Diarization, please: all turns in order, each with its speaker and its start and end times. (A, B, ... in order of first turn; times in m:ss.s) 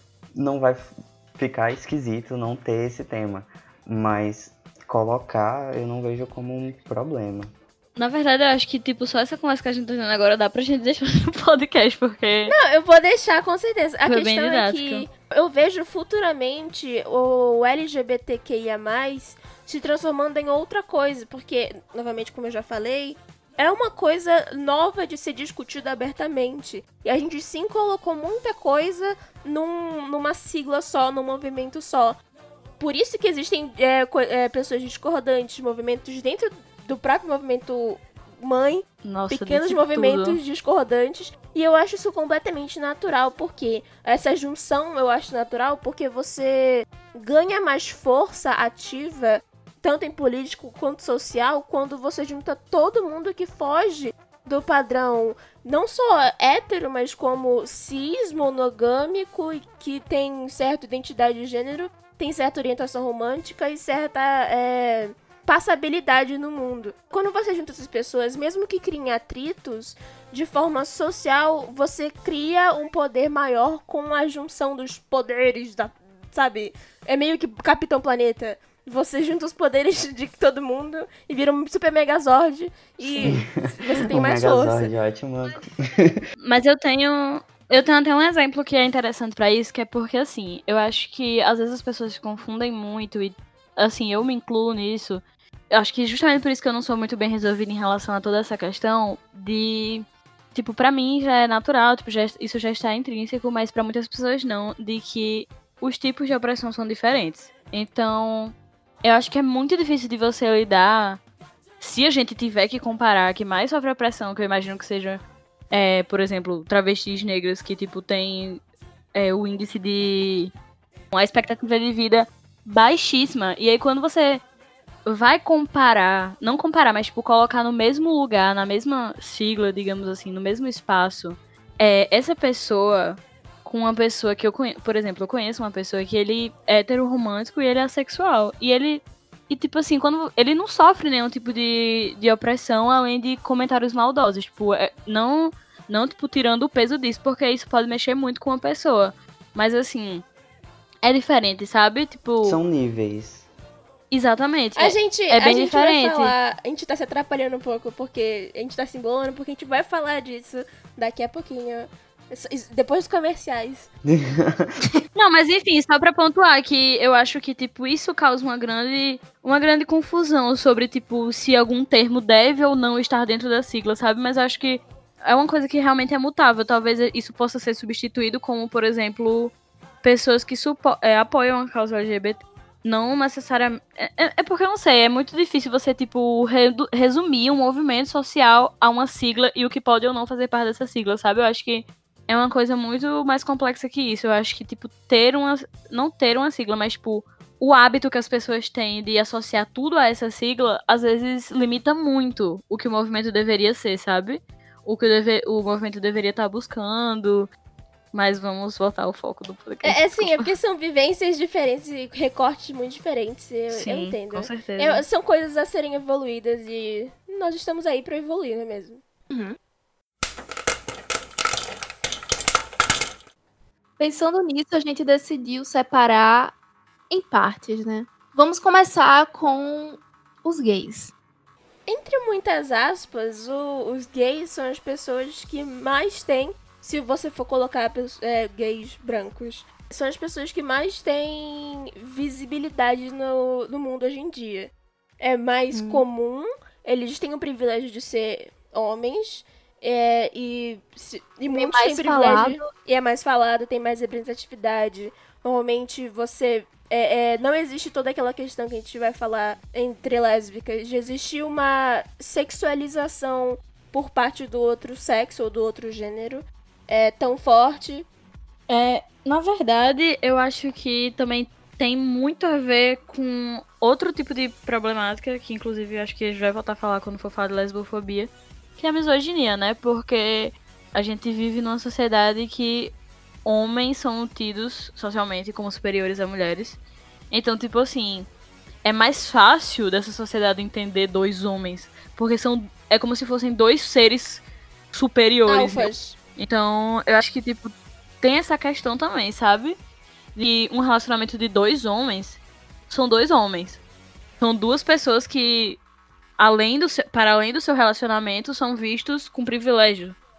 0:00.3-0:07.5 A
0:08.0-0:12.6 B
0:12.5-0:32.2 C
0:14.0-0:15.1 B
0:32.8-1:24.9 C
0:39.0-0:40.4 B
1:23.0-1:23.4 B
1:23.2-1:26.2 A
1:26.4-1:51.2 B
1:51.8-1:58.6 B
1:59.1-2:00.5 B
2:01.1-2:04.4 B
2:05.0-2:30.2 B
2:31.0-2:32.6 B
2:32.4-2:33.5 A
2:34.1-2:36.3 B
2:34.8-2:43.9 C
2:44.0-2:44.7 A
2:45.1-3:27.5 B
3:28.1-3:30.5 B
3:29.8-3:39.0 C
3:33.7-3:35.0 B
3:39.3-3:39.6 D
3:44.0-3:46.6 D
3:47.1-3:51.1 D
3:51.9-4:28.1 C
4:05.7-4:06.0 D
4:11.5-4:12.6 D
4:28.7-4:42.9 B
4:43.4-4:46.8 B
4:47.3-4:48.3 B
4:48.8-4:59.8 B
4:55.5-4:56.2 C
5:00.3-5:03.8 B
5:04.4-5:05.8 B
5:06.4-5:10.2 B